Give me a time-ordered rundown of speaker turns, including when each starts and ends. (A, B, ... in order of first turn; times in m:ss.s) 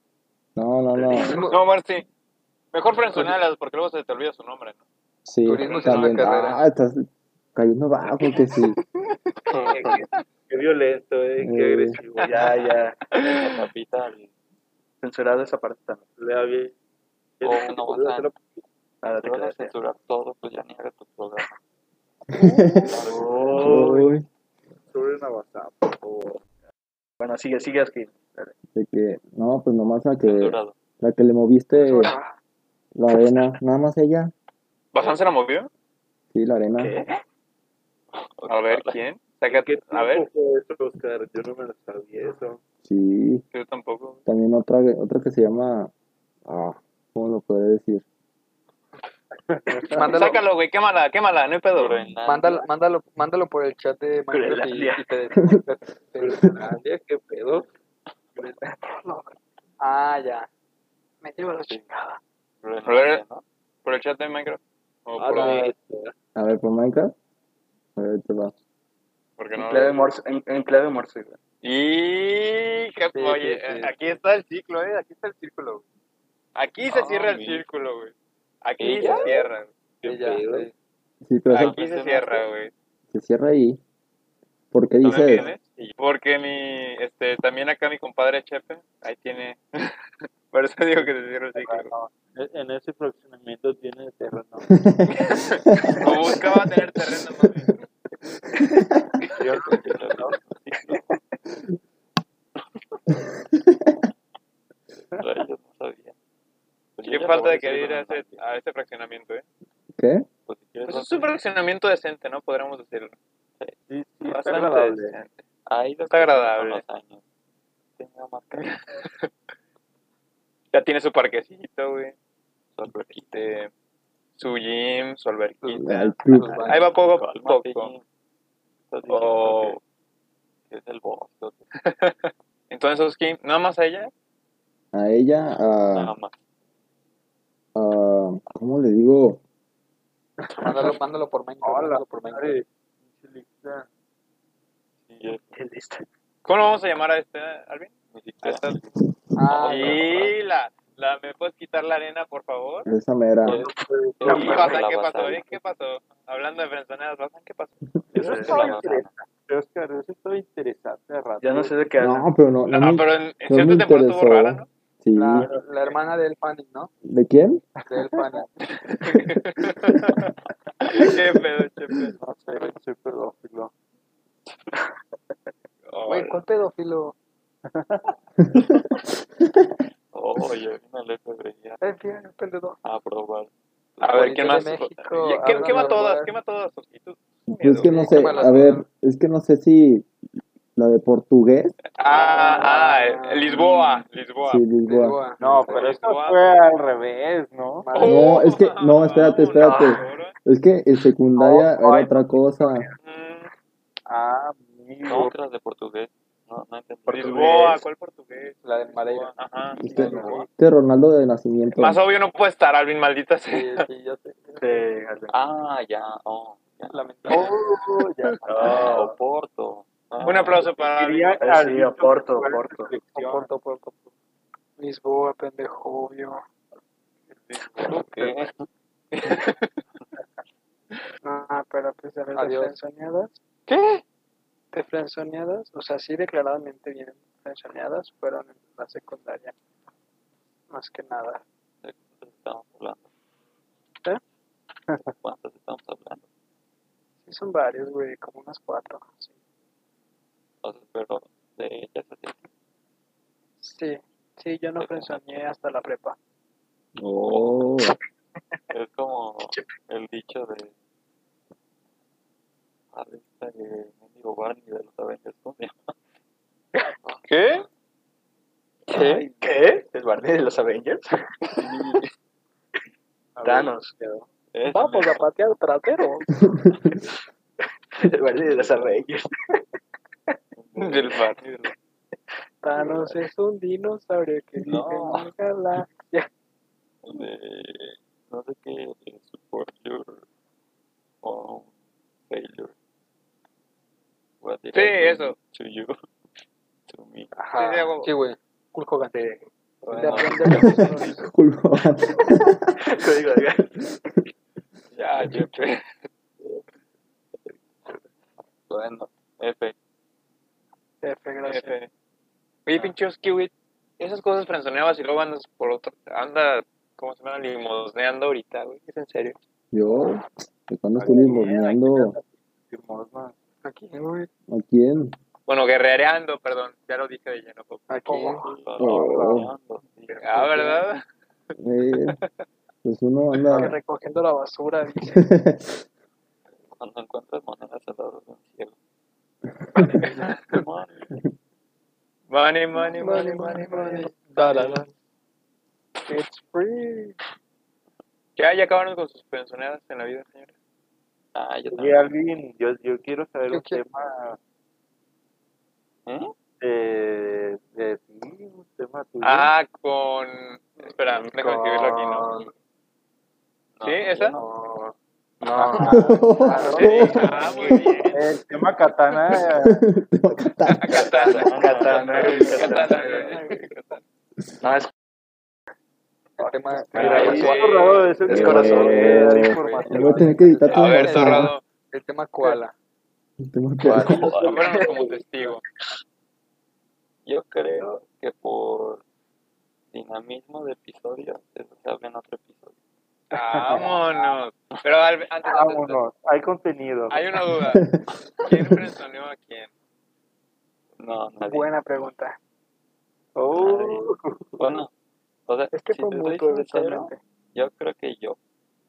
0:00.6-0:01.4 A
0:00.9-0:01.5 B
0:01.4-0:02.0 C
0:02.7-0:04.8 C
0:05.2-0:08.8 A
0:05.4-0:06.6 D
0:05.6-0:06.4 C
0:09.5-0:09.9 B
0:09.7-0:10.1 C
0:10.5-0:12.8 E
0:11.4-0:12.0 A
0:12.2-0:13.0 B
0:13.1-0:13.5 C
0:13.1-0:14.3 F
0:15.0-0:16.0 B
0:16.2-0:16.7 E
0:17.4-0:18.4 E
0:17.4-0:18.3 F
0:19.0-0:19.7 B
0:19.2-0:21.6 F
0:22.3-0:22.9 A
0:22.8-0:23.9 F
0:23.0-0:24.1 B
0:23.5-0:24.2 A
0:24.9-0:26.4 E
0:27.2-0:28.5 B
0:28.7-0:32.1 A
0:30.2-0:30.8 F
0:31.8-0:32.3 G
0:32.9-0:34.3 A
0:34.9-0:35.7 C
0:36.3-0:36.9 A
0:36.8-0:37.2 B
0:38.1-0:39.0 F
0:38.4-0:40.3 C
0:39.5-0:42.6 E
0:42.8-0:43.4 A
0:43.5-0:44.2 C
0:44.2-0:45.9 A
0:46.4-0:48.0 A
0:49.5-0:50.3 E
0:49.9-0:50.4 D
0:49.9-0:52.0 C
0:51.7-0:52.7 F
0:52.2-0:56.7 D
0:54.3-0:55.0 B
0:55.4-0:55.6 A
0:56.2-0:57.7 E
0:58.4-0:58.6 E
0:58.8-0:59.4 G
0:59.8-1:00.5 D
1:01.2-1:02.2 G
1:01.6-1:01.9 F
1:02.6-1:03.4 F
1:02.8-1:03.2 C
1:03.8-1:05.7 C
1:05.1-1:06.1 E
1:06.4-1:07.1 A
1:08.0-1:08.5 A
1:09.4-1:10.0 C
1:09.6-1:11.4 B
1:11.6-1:15.8 C
1:13.1-1:13.9 D
1:16.5-1:19.7 C
1:16.9-1:17.6 F
1:18.8-1:19.4 F
1:18.8-1:19.3 E
1:20.0-1:20.7 E
1:20.0-1:20.7 D
1:21.2-1:21.8 A
1:21.5-1:22.7 C
1:21.5-1:22.5 F
1:23.1-1:23.8 A
1:24.7-1:25.5 A
1:25.0-1:26.0 F
1:25.0-1:29.9 C
1:30.5-1:31.9 C
1:31.5-1:34.7 E
1:34.7-1:36.0 A
1:35.2-1:37.7 C
1:38.5-1:38.8 A
1:39.4-1:40.4 E
1:39.6-1:41.0 F
1:43.5-1:44.0 A
1:45.1-1:46.1 F
1:47.0-1:48.4 F
1:47.0-1:49.4 C
1:50.0-1:50.2 A
1:50.4-1:51.3 F
1:50.8-1:53.1 C
1:53.9-1:55.1 E
1:54.2-1:55.4 C
1:55.6-1:57.2 F
1:56.1-1:56.8 C
1:58.0-1:58.8 F
2:00.7-2:02.1 C
2:02.8-2:03.5 F
2:03.3-2:03.7 C
2:04.4-2:07.9 C
2:05.6-2:06.9 D
2:05.8-2:06.7 A
2:06.6-2:08.0 F
2:08.9-2:09.8 F
2:09.1-2:09.8 C
2:10.7-2:11.6 F
2:11.8-2:14.1 C
2:14.9-2:16.1 A
2:15.9-2:16.3 F
2:17.7-2:19.4 A
2:20.4-2:21.0 E
2:20.6-2:22.6 D
2:21.6-2:23.9 E
2:25.1-2:25.4 F
2:25.5-2:26.0 B
2:26.4-2:28.8 C
2:28.1-2:28.9 F
2:29.4-2:30.0 D
2:29.5-2:30.4 F
2:29.5-2:32.9 C
2:32.8-2:33.6 A
2:33.4-2:34.7 E
2:33.4-2:35.6 F
2:34.2-2:34.7 B
2:34.3-2:37.7 C
2:38.1-2:38.7 B
2:38.1-2:41.9 E
2:38.2-2:39.1 F
2:41.4-2:42.3 B
2:42.0-2:45.5 A
2:42.7-2:44.7 C
2:45.1-2:46.9 D
2:47.0-2:47.6 A
2:47.9-2:48.5 D
2:49.0-2:52.1 C
2:52.1-2:53.7 E
2:55.9-2:56.4 C
2:56.0-2:57.1 G
2:57.6-2:58.1 E
3:00.1-3:01.8 F
3:01.8-3:02.8 G
3:02.8-3:05.0 F
3:04.0-3:08.7 C
3:04.1-3:06.3 D
3:04.4-3:06.1 G
3:07.5-3:10.1 A
3:07.8-3:08.8 D
3:10.8-3:11.8 A
3:12.0-3:14.6 C
3:12.1-3:13.8 D
3:12.3-3:12.8 G
3:14.4-3:15.2 A
3:14.8-3:16.0 D
3:15.4-3:17.9 E
3:15.6-3:16.8 C
3:17.8-3:18.4 D
3:17.9-3:20.3 C
3:18.0-3:22.9 A
3:19.6-3:20.0 B
3:21.4-3:21.6 D
3:21.7-3:22.0 C
3:23.0-3:23.5 C
3:24.0-3:25.4 E
3:25.1-3:27.8 F
3:27.1-3:30.4 C
3:27.3-3:27.5 B
3:28.6-3:30.4 D
3:29.8-3:32.0 A
3:30.0-3:30.4 B
3:30.0-3:30.4 F
3:31.7-3:33.9 C
3:33.5-3:34.8 D
3:34.6-3:35.3 B
3:35.3-3:37.0 F
3:36.9-3:37.5 D
3:37.3-3:39.0 E
3:38.4-3:39.2 B
3:38.5-3:40.8 F
3:40.2-3:41.4 C
3:40.8-3:43.5 E
3:41.4-3:42.9 B
3:43.1-3:44.1 D
3:44.8-3:46.4 G
3:47.3-3:48.0 E
3:47.5-3:48.7 F
3:49.1-3:49.7 C
3:51.2-3:53.4 G
3:52.3-3:52.7 D
3:53.7-3:54.0 C
3:54.7-3:59.5 G
4:00.7-4:01.4 G
4:01.8-4:03.1 F
4:05.1-4:06.2 F
4:07.2-4:09.3 G
4:10.6-4:12.5 F
4:13.6-4:16.2 G
4:14.8-4:15.5 F
4:17.0-4:18.0 A
4:17.2-4:17.7 F
4:18.7-4:20.7 F
4:22.9-4:25.9 F
4:27.2-4:27.6 C
4:28.9-4:29.3 C
4:28.9-4:29.5 F
4:29.0-4:31.6 B
4:31.6-4:32.1 F
4:33.4-4:34.2 E
4:33.4-4:33.9 B
4:34.5-4:35.3 F
4:34.7-4:36.3 G
4:37.9-4:39.6 B
4:38.4-4:39.0 F
4:40.6-4:41.7 F
4:40.8-4:41.4 C
4:42.6-4:46.3 G
4:42.8-4:43.2 F
4:44.6-4:45.3 F
4:47.0-4:50.2 F
4:51.2-4:51.7 F
4:52.3-4:52.7 F
4:54.4-4:56.0 F
4:54.7-4:55.4 C
4:56.9-4:57.3 F
4:57.4-4:59.3 D
4:57.5-4:58.1 C
4:59.1-5:00.4 B
4:59.9-5:01.3 F
5:00.0-5:01.3 G
5:00.0-5:00.8 D
5:00.4-5:03.0 A
5:02.8-5:03.7 B
5:03.6-5:04.0 A
5:04.9-5:05.8 C
5:05.0-5:05.5 F
5:08.7-5:09.7 F
5:11.0-5:11.7 G
5:11.4-5:11.9 C
5:12.6-5:19.4 C
5:19.7-5:22.2 A
5:21.0-5:23.3 E
5:23.6-5:24.3 G
5:24.5-5:25.1 A
5:25.5-5:28.3 C
5:27.9-5:28.4 D
5:27.9-5:28.5 G
5:28.4-5:30.8 F
5:28.8-5:29.5 E
5:28.8-5:29.5 A
5:30.2-5:31.0 C
5:31.6-5:32.2 A
5:32.8-5:33.8 A
5:33.5-5:35.2 G
5:35.1-5:35.8 A
5:36.8-5:38.8 F
5:40.0-5:40.4 C
5:40.0-5:41.1 F
5:42.3-5:44.1 C
5:42.8-5:44.8 G
5:46.0-5:47.2 G
5:48.4-5:50.5 C
5:51.3-5:52.1 F
5:51.7-5:54.4 E
5:53.5-5:53.8 G
5:56.0-5:56.3 F
5:56.6-5:59.5 E
5:59.2-6:02.3 C
6:01.1-6:02.5 B
6:03.8-6:04.4 F
6:03.8-6:04.4 C
6:04.3-6:06.0 B
6:05.8-6:07.4 A
6:06.4-6:07.5 D
6:06.7-6:08.4 C
6:08.1-6:09.8 E
6:09.6-6:11.0 A
6:10.7-6:14.0 C
6:10.9-6:13.4 B
6:11.3-6:13.4 F
6:14.6-6:14.9 B
6:16.4-6:17.6 D
6:16.9-6:17.6 B
6:16.9-6:18.3 C
6:16.9-6:20.4 E
6:18.2-6:19.3 B
6:18.3-6:21.5 A
6:18.4-6:22.7 D
6:20.7-6:21.6 C
6:23.4-6:24.4 A
6:23.8-6:25.1 B
6:24.0-6:24.9 F
6:24.4-6:25.6 C
6:27.2-6:29.0 F
6:29.9-6:32.8 F
6:33.3-6:36.0 C
6:33.3-6:34.0 E
6:35.4-6:37.2 E
6:37.1-6:37.8 C
6:37.7-6:38.0 A
6:38.4-6:39.7 C
6:41.0-6:41.8 F
6:41.4-6:42.4 G
6:43.3-6:44.8 E
6:43.5-6:44.0 F
6:44.6-6:44.9 F
6:45.5-6:48.4 F
6:45.7-6:47.2 G